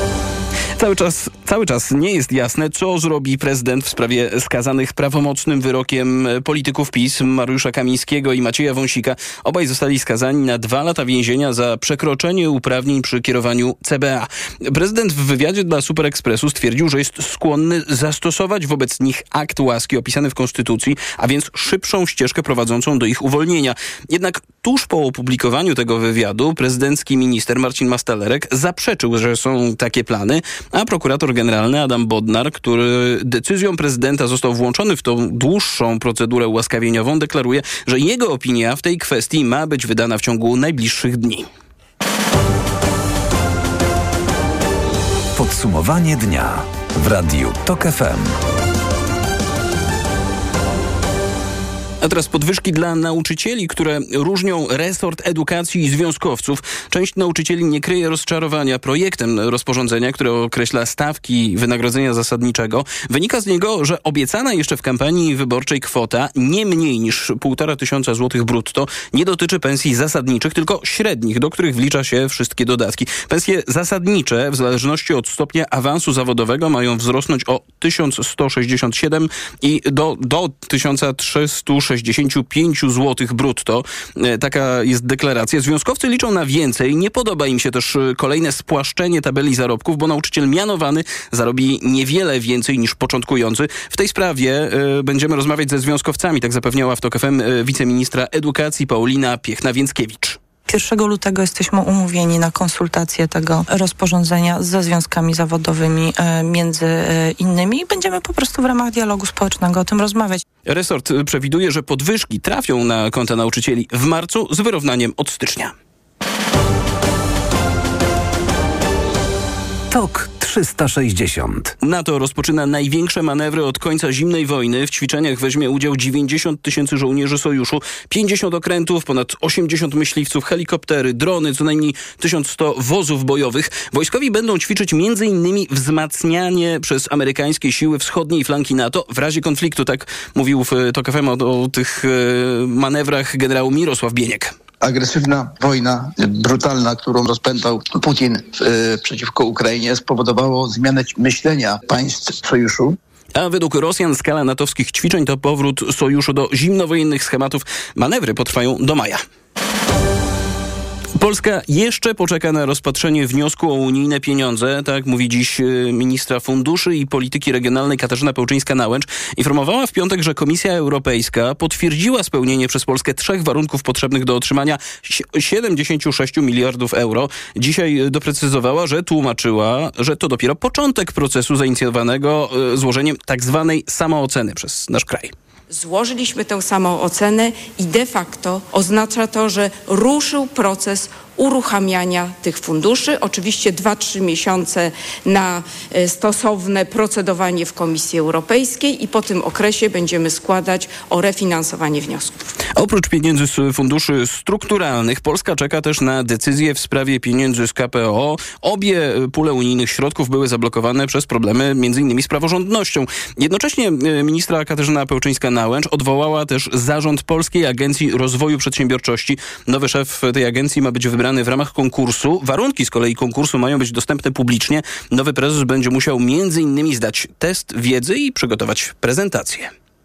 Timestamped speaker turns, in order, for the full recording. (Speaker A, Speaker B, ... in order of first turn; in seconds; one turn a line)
Speaker A: 0.8-41.5
Speaker B: 45.4-48.4
Speaker A: 52.0-100.4
Speaker C: 100.7-110.4
Speaker A: 110.7-115.7
Speaker B: 119.9-121.7
Speaker A: 121.8-144.5
Speaker D: 144.8-152.9
Speaker A: 153.3-159.2
Speaker A: 161.2-185.3
Speaker E: 185.7-202.3
Speaker A: 202.8-229.7